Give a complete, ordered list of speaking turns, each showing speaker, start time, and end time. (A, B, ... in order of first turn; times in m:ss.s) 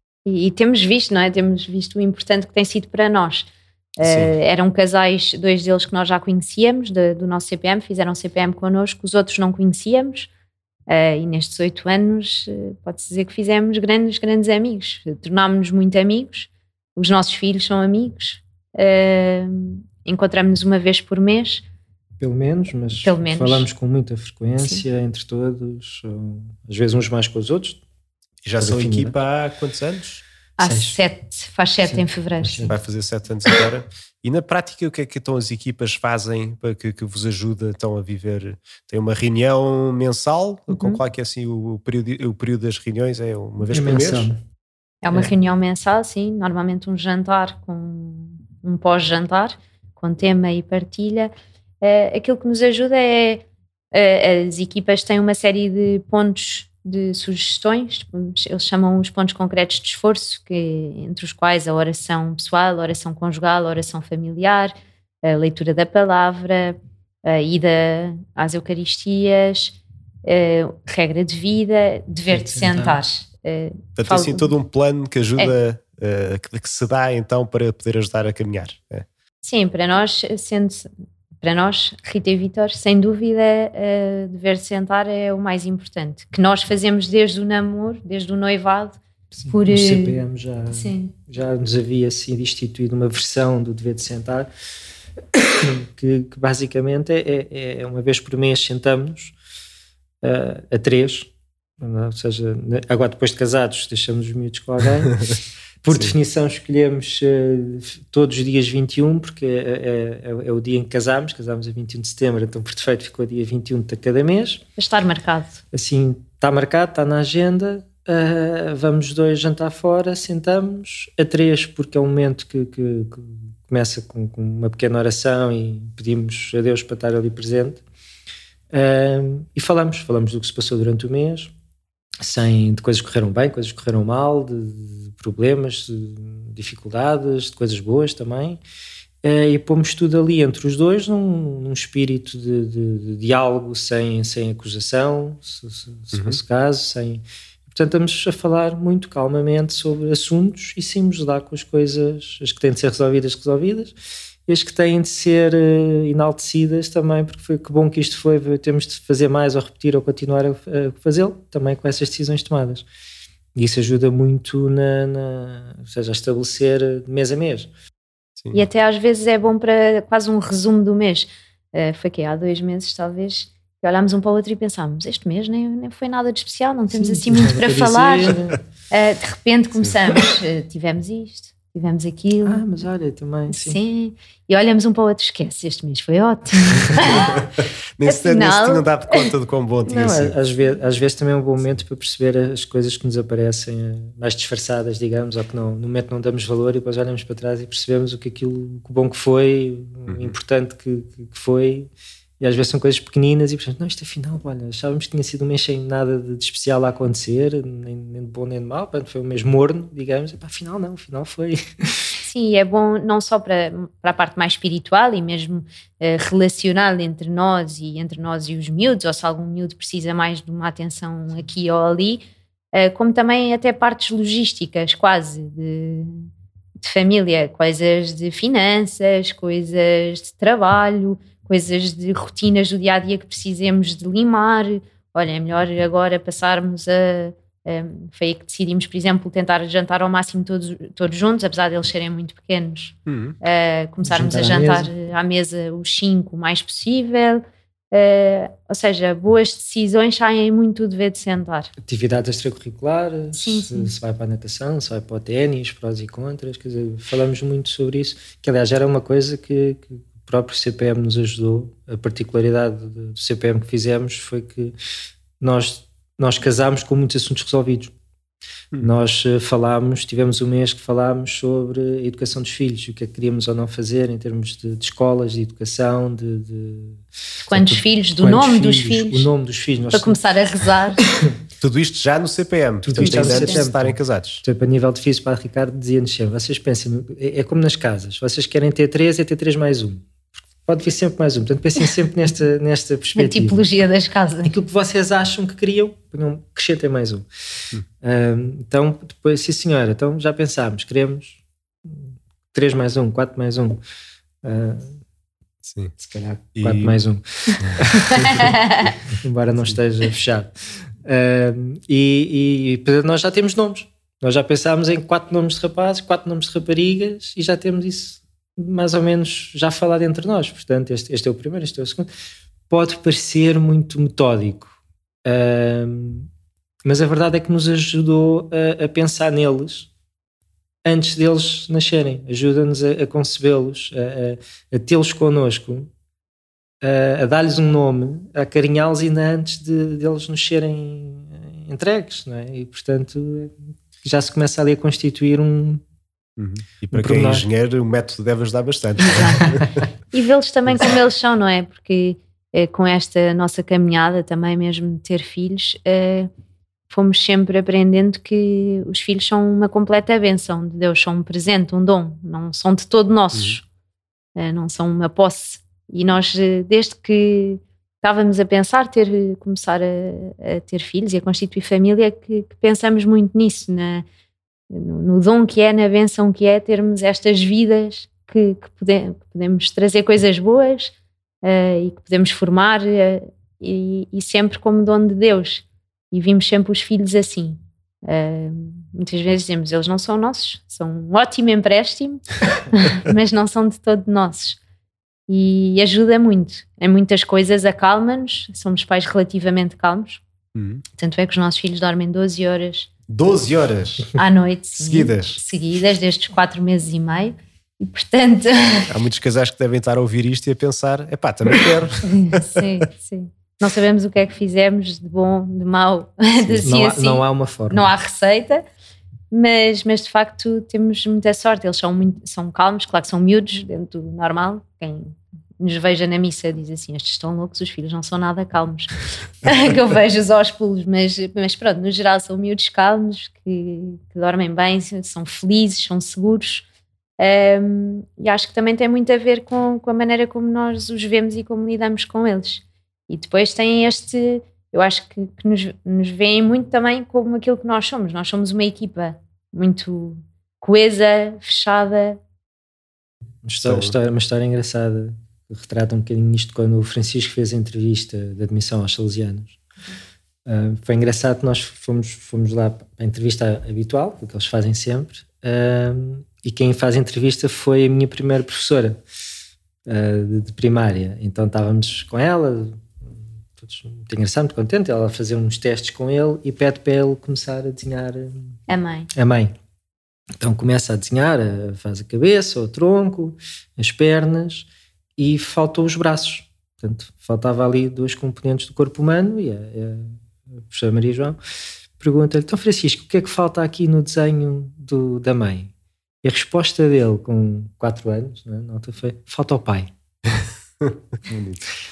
0:00.3-0:10.3 A
0:04.0-0:04.4 B
0:10.9-0:21.6 A
0:22.2-0:27.8 C
0:23.0-0:23.7 A
0:28.4-0:30.2 B
0:28.6-0:29.2 C
0:30.6-0:32.7 A
0:30.6-0:31.0 C
0:31.9-0:32.8 C
0:32.7-0:44.3 B
0:40.7-0:41.0 A
0:43.7-0:44.4 C
0:45.0-1:14.5 A
1:12.3-1:13.0 C
1:14.0-1:19.0 B
1:19.4-1:20.9 A
1:21.4-1:30.2 A
1:29.3-1:34.5 C
1:30.7-1:31.1 A
1:35.3-1:39.4 C
1:40.2-1:45.2 C
1:45.8-1:54.6 C
1:54.8-1:55.6 A
1:55.7-2:07.8 C
2:08.7-2:11.5 C
2:12.2-2:18.6 C
2:19.2-2:34.0 C
2:26.1-2:26.4 B
2:34.5-2:42.8 C
2:43.6-2:47.7 C
2:48.5-2:58.4 A
2:56.9-2:58.6 C
2:58.9-3:02.6 A
3:02.4-3:03.8 C
3:03.5-3:07.5 A
3:08.0-3:10.3 B
3:08.1-3:09.3 A
3:09.9-3:32.1 C
3:20.1-3:20.3 B
3:32.2-3:46.3 A
3:46.8-4:11.7 A
4:03.1-4:03.4 B
4:04.1-4:04.9 C
4:11.8-4:24.8 C
4:13.3-4:13.9 A
4:25.4-4:27.9 C
4:28.8-4:40.2 C
4:37.5-4:39.3 A
4:39.9-4:41.0 A
4:41.6-4:44.4 B
4:42.8-4:50.1 C
4:43.0-4:43.6 A
4:50.6-4:53.6 C
4:53.2-4:54.6 A
4:54.4-4:57.3 C
4:58.0-5:03.8 C
5:04.4-5:05.0 C
5:05.7-5:05.9 B
5:06.0-5:10.5 C
5:06.6-5:07.0 B
5:07.6-5:08.4 B
5:08.1-5:08.9 A
5:11.0-5:22.1 C
5:22.7-5:26.3 C
5:26.8-5:29.9 C
5:30.8-5:35.9 C
5:36.8-5:45.8 C
5:46.4-5:49.7 B
5:46.9-5:47.4 C
5:49.0-5:56.3 A
5:56.9-6:03.6 A
6:04.4-6:14.0 A
6:14.7-6:34.6 A
6:35.3-6:40.2 A
6:40.6-6:40.8 B
6:41.0-6:42.9 A
6:43.1-6:44.2 B
6:44.2-6:48.9 A
6:44.8-6:45.4 B
6:48.9-6:52.6 B
6:52.1-6:58.6 A
6:56.6-6:57.9 C
6:59.3-7:16.6 A
7:17.2-7:32.2 A
7:33.4-7:39.6 C
7:33.6-7:34.0 B
7:40.4-7:49.0 C
7:49.9-7:58.6 C
7:58.7-7:59.1 A
7:59.1-7:59.5 C
8:00.4-8:11.4 C
8:12.0-8:15.7 C
8:16.2-8:19.9 C
8:20.8-8:21.6 B